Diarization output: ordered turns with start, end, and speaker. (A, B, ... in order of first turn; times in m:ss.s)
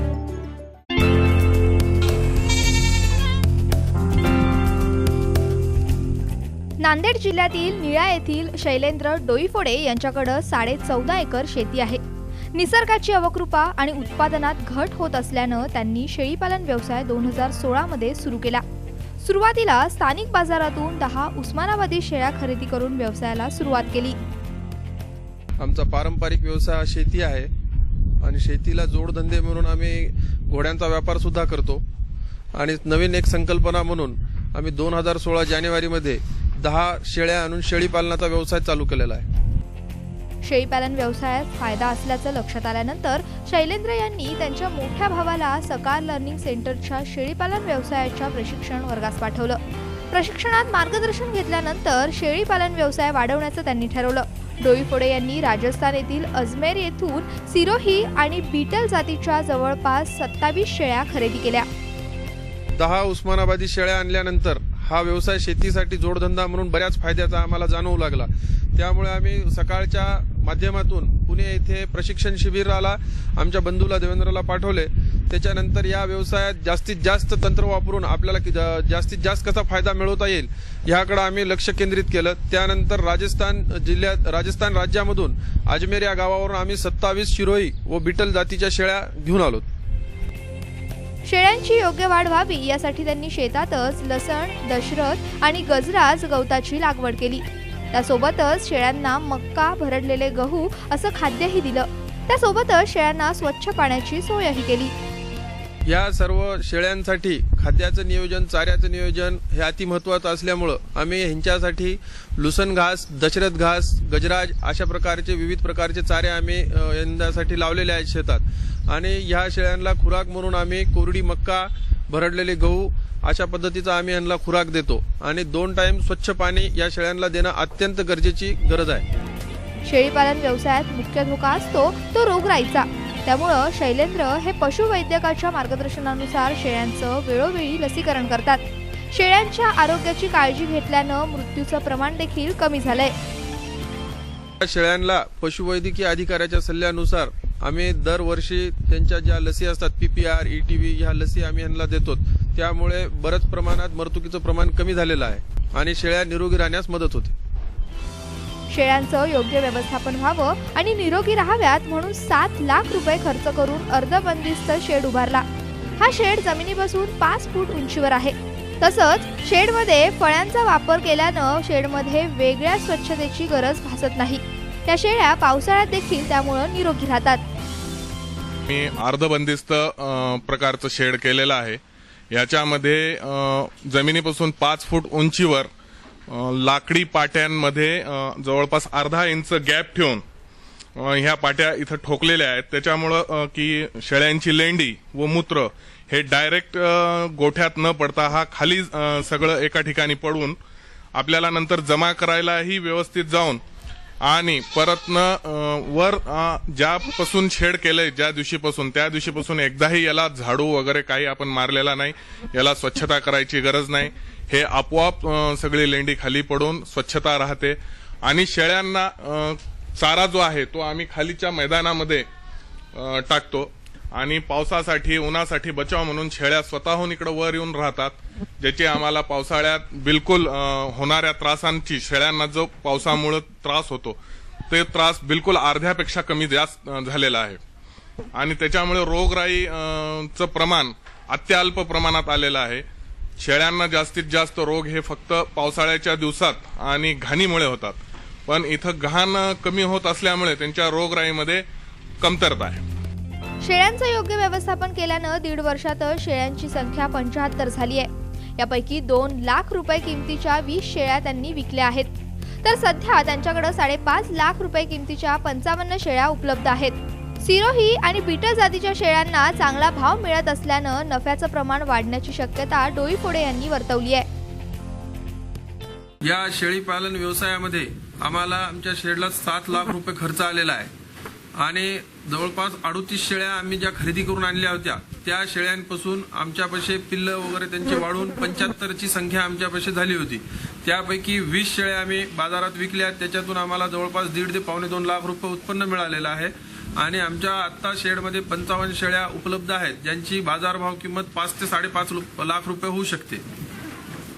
0:06.8-0:12.0 A
0:12.5-0:18.6 A
0:19.2-0:24.2 A
0:25.6-0:27.5 B
0:28.2-0:31.8 B
0:32.6-0:39.3 B
0:40.4-0:49.6 A
0:50.1-1:01.7 A
1:02.8-1:29.7 B
1:31.2-1:44.9 A
1:45.9-2:09.0 B
2:09.9-2:23.1 A
2:24.6-2:37.3 B
2:38.7-2:45.5 A
2:46.0-2:57.4 A
2:58.7-3:05.7 C
3:06.3-3:10.2 C
3:11.0-3:20.6 C
3:21.2-3:23.6 C
3:24.3-3:42.3 C
3:43.0-3:54.2 C
3:54.7-3:57.6 C
3:58.4-4:02.8 C
4:03.4-4:11.6 C
4:12.2-4:12.8 C
4:13.6-4:34.3 A
4:36.2-4:40.9 B
4:41.6-5:03.4 B